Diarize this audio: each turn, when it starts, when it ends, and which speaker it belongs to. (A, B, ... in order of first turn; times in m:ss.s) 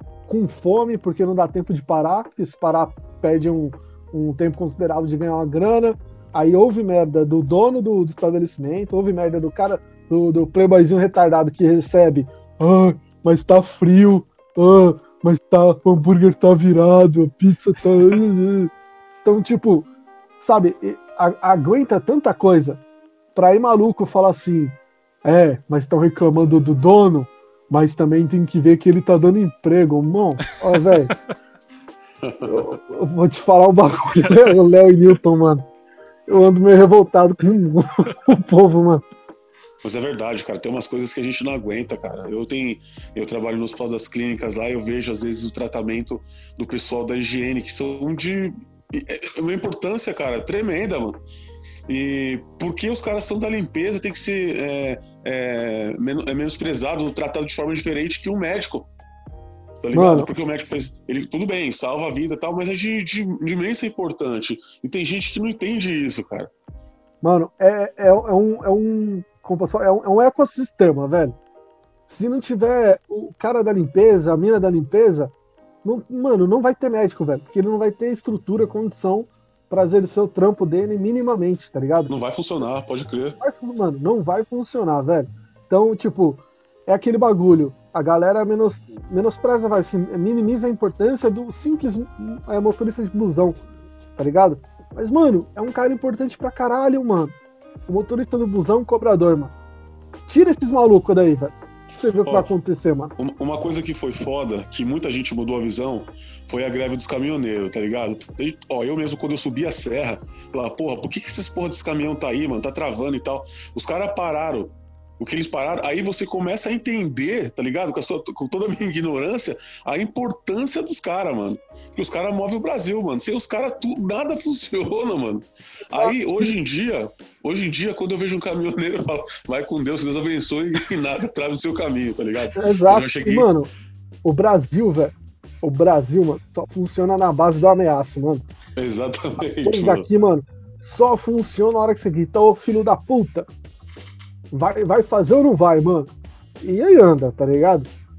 0:00.3-0:18.7 A
0:19.2-0:19.9 A
0:20.4-0:22.8 A
0:23.3-0:31.1 A
0:32.2-0:32.7 B
0:32.5-0:35.6 A
0:36.3-0:39.0 A
0:39.8-0:51.2 B
0:51.9-0:58.9 B
0:59.8-1:06.5 B
0:59.9-1:00.3 A
1:07.2-1:11.4 A
1:12.1-1:15.3 A
1:15.8-1:22.1 A
1:22.1-1:23.4 B
1:23.4-1:33.6 A
1:34.2-1:37.3 A
1:37.9-1:39.5 A
1:40.3-1:43.1 A
1:43.2-2:13.5 B
2:05.9-2:06.5 A
2:12.6-2:13.7 A
2:14.2-2:18.4 A
2:18.8-2:20.1 B
2:19.6-2:23.5 A
2:24.5-2:26.1 A
2:26.6-2:27.9 A